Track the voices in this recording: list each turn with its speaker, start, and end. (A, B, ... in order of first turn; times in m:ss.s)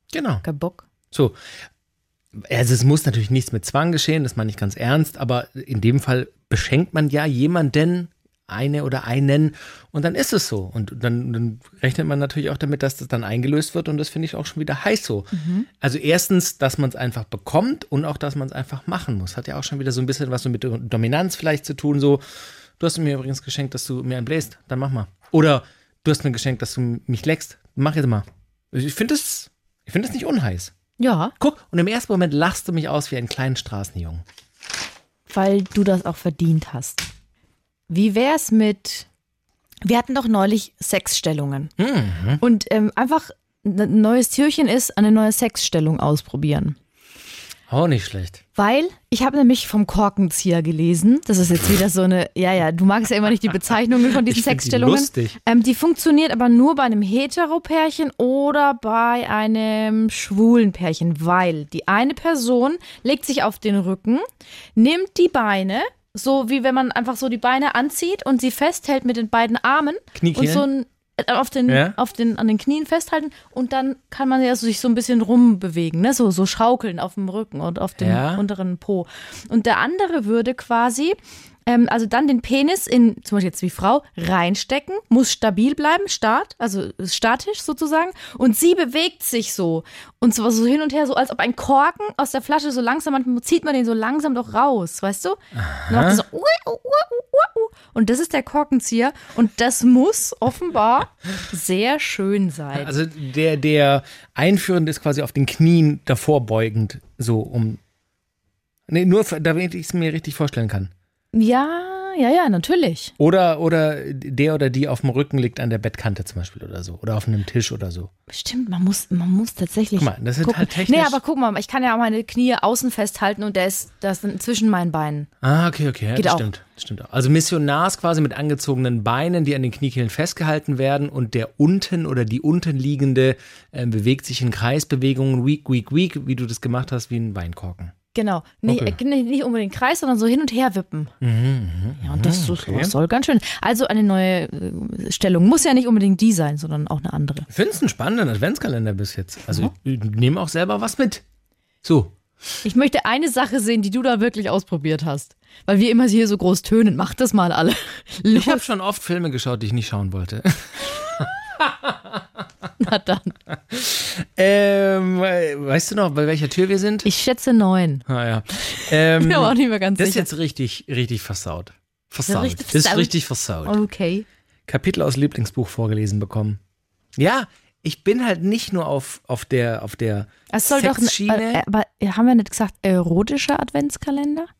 0:00.1-0:00.4 A
0:00.4-0:00.8 B
0:01.1-0:01.4 A
0:02.4-0:22.2 A
0:15.3-0:15.7 B
0:22.8-0:30.7 A
0:31.0-0:31.3 B
0:31.4-0:34.2 A
0:35.3-0:37.1 B
0:37.9-0:39.1 B
0:39.8-0:41.7 B
0:41.8-0:42.4 A
0:42.4-0:46.8 B
0:47.7-0:48.4 A
0:48.5-1:04.2 B
0:54.2-0:55.4 A
1:04.8-1:42.9 B
1:10.1-1:10.6 A
1:11.7-1:12.0 A
1:18.0-1:18.4 A
1:35.5-1:36.2 A
1:42.7-1:47.8 A
1:48.9-1:50.9 A
1:51.3-1:53.1 B
1:53.2-1:58.1 A
1:58.3-2:05.3 B
2:00.0-2:01.2 A
2:05.4-2:17.9 A
2:06.2-2:06.4 B
2:18.1-2:21.1 B
2:18.6-2:19.0 A
2:21.2-2:22.9 A
2:22.0-2:27.5 B
2:27.5-2:31.2 A
2:31.8-2:32.2 A
2:32.6-2:38.6 B
2:38.3-2:42.2 A
2:42.8-2:43.4 B
2:43.7-2:47.1 A
2:47.0-2:50.3 B
2:48.0-2:53.8 A
2:52.3-2:53.1 B
2:53.6-2:54.2 B
2:54.7-2:56.6 A
2:57.2-3:01.6 A
3:00.5-3:04.5 B